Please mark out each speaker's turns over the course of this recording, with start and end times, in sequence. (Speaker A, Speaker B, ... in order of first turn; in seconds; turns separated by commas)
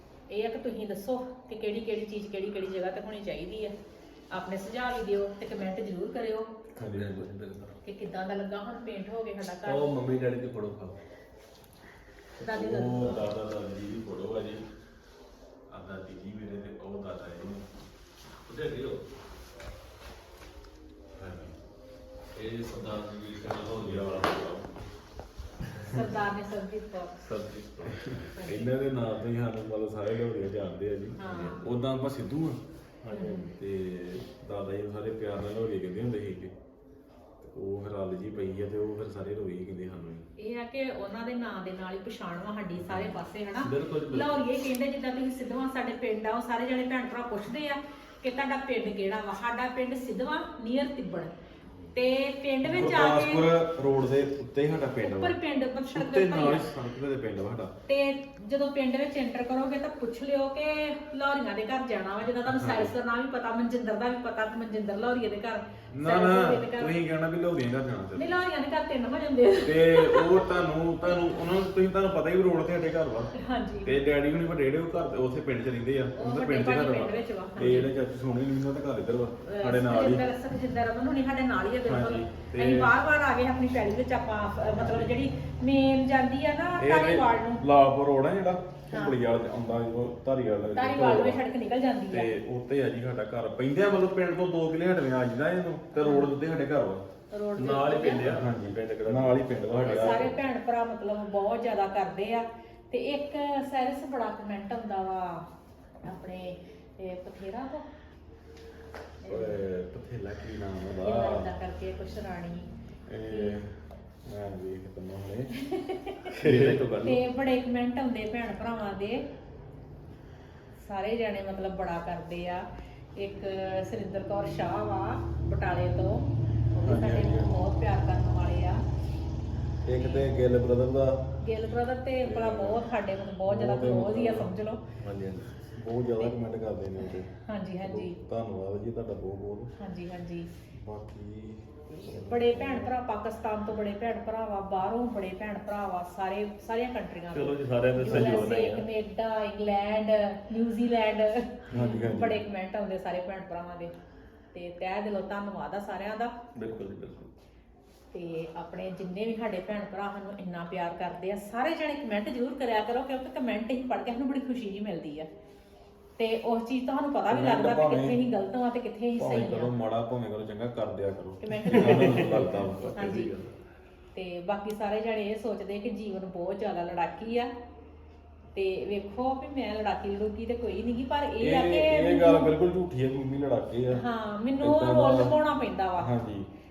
Speaker A: 0.3-3.7, Speaker A: 4.3-6.5, Speaker B: 6.8-7.2, Speaker C: 6.9-7.7, Speaker A: 7.8-9.9, Speaker C: 9.6-11.0, Speaker A: 12.4-13.2, Speaker B: 12.5-14.6, Speaker B: 15.7-17.7, Speaker C: 18.4-19.0, Speaker B: 21.1-21.5, Speaker C: 22.4-24.3, Speaker B: 22.7-24.7, Speaker C: 25.8-26.1, Speaker A: 25.9-27.2, Speaker C: 27.2-28.2, Speaker B: 27.9-32.6, Speaker A: 28.3-28.7, Speaker A: 31.2-31.6, Speaker C: 31.2-31.6, Speaker C: 33.0-33.5, Speaker A: 33.1-33.4, Speaker B: 33.5-36.5, Speaker B: 37.4-40.2, Speaker A: 40.4-51.3, Speaker C: 43.6-44.3, Speaker A: 51.9-53.5, Speaker B: 52.6-55.4, Speaker A: 55.0-56.6, Speaker B: 55.9-57.7, Speaker A: 57.9-67.0, Speaker B: 62.5-62.9, Speaker B: 65.9-68.4, Speaker A: 68.2-70.4, Speaker B: 69.6-73.3, Speaker A: 73.3-73.9, Speaker B: 73.8-80.2, Speaker A: 76.2-77.9, Speaker A: 79.4-87.6, Speaker B: 81.8-82.9, Speaker B: 84.7-85.1, Speaker B: 86.8-91.4, Speaker A: 88.9-89.1, Speaker A: 90.7-92.3, Speaker B: 92.1-97.0, Speaker A: 95.9-96.3, Speaker A: 97.3-98.3, Speaker C: 97.5-100.4, Speaker B: 98.2-100.3, Speaker A: 99.8-105.5, Speaker A: 106.0-107.8, Speaker A: 109.2-109.6, Speaker B: 109.2-111.5, Speaker A: 111.0-112.7, Speaker B: 113.1-113.7, Speaker B: 114.3-115.5, Speaker A: 115.6-116.2, Speaker C: 116.3-117.2, Speaker B: 116.4-116.8, Speaker A: 117.0-119.2, Speaker A: 120.8-122.6, Speaker A: 123.2-128.8, Speaker B: 126.8-127.6, Speaker B: 129.8-131.2, Speaker A: 129.9-130.3, Speaker A: 131.4-134.8, Speaker B: 132.2-132.8, Speaker B: 133.4-134.5, Speaker C: 135.0-135.5, Speaker B: 135.7-137.3, Speaker A: 137.1-138.2, Speaker B: 137.8-139.7, Speaker A: 139.8-140.5, Speaker B: 140.7-142.9, Speaker A: 142.0-153.9, Speaker C: 147.3-148.9, Speaker B: 148.1-148.3, Speaker B: 151.7-152.4, Speaker C: 151.7-152.2, Speaker A: 154.5-156.3, Speaker C: 156.6-157.3, Speaker A: 158.1-165.3, Speaker A: 166.2-169.7, Speaker B: 167.3-168.2, Speaker B: 169.2-173.0, Speaker A: 171.4-173.3, Speaker C: 171.8-173.6, Speaker A: 174.1-177.5, Speaker A: 178.6-182.5, Speaker B: 181.4-184.0, Speaker A: 183.9-186.1, Speaker B: 184.6-185.4, Speaker B: 186.0-186.5